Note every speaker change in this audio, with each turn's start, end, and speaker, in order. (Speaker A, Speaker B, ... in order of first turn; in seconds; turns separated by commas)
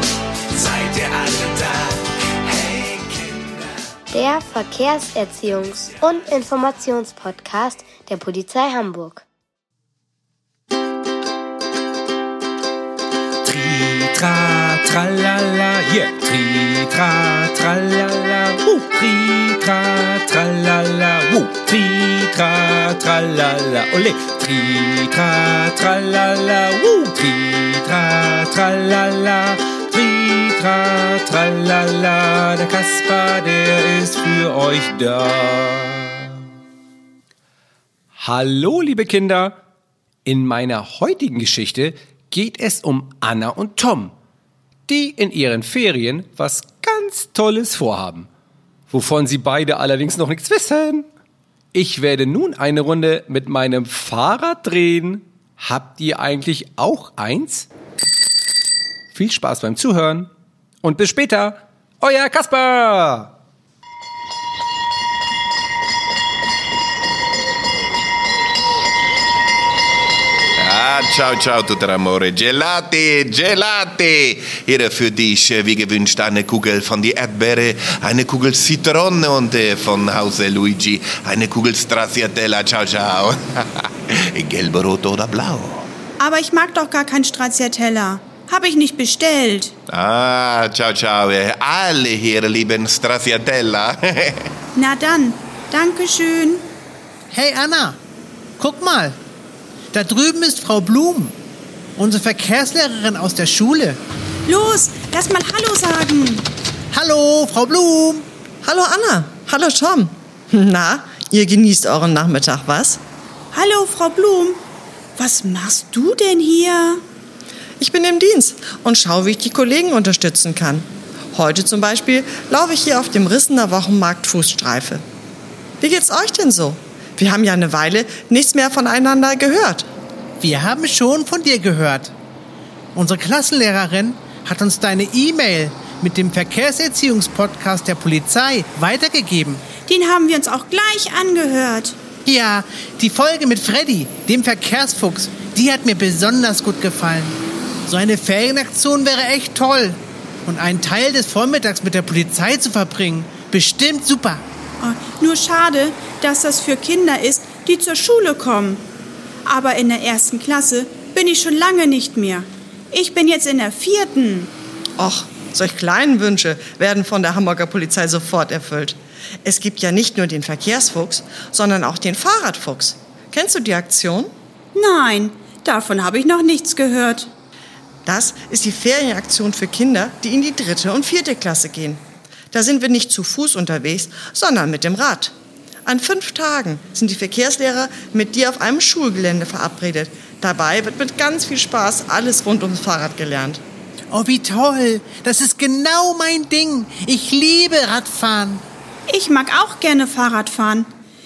Speaker A: 0.6-1.9, Speaker A: 2.7-3.2, Speaker B: 4.1-9.2, Speaker A: 13.4-36.3, Speaker A: 38.2-39.6, Speaker A: 40.2-44.1, Speaker A: 44.9-48.3, Speaker A: 48.9-51.1, Speaker A: 51.7-57.7, Speaker A: 59.1-60.3, Speaker A: 60.8-63.3, Speaker C: 70.6-85.9, Speaker D: 86.2-89.7, Speaker C: 89.9-94.5, Speaker D: 94.8-96.7, Speaker E: 97.3-98.0, Speaker E: 98.6-99.2, Speaker E: 99.9-101.4, Speaker E: 102.0-104.0, Speaker D: 104.5-106.5, Speaker E: 106.9-108.3, Speaker F: 108.6-113.0, Speaker D: 113.5-114.6, Speaker D: 115.2-117.0, Speaker F: 117.8-125.0, Speaker F: 125.8-129.9, Speaker E: 130.4-132.1, Speaker E: 132.9-139.6, Speaker D: 139.9-142.0, Speaker E: 142.2-154.4, Speaker D: 154.8-158.8, Speaker D: 159.4-164.5, Speaker F: 165.0-174.3, Speaker D: 174.7-177.3, Speaker F: 178.1-185.3, Speaker F: 185.9-193.6, Speaker E: 194.1-198.6, Speaker D: 199.1-200.9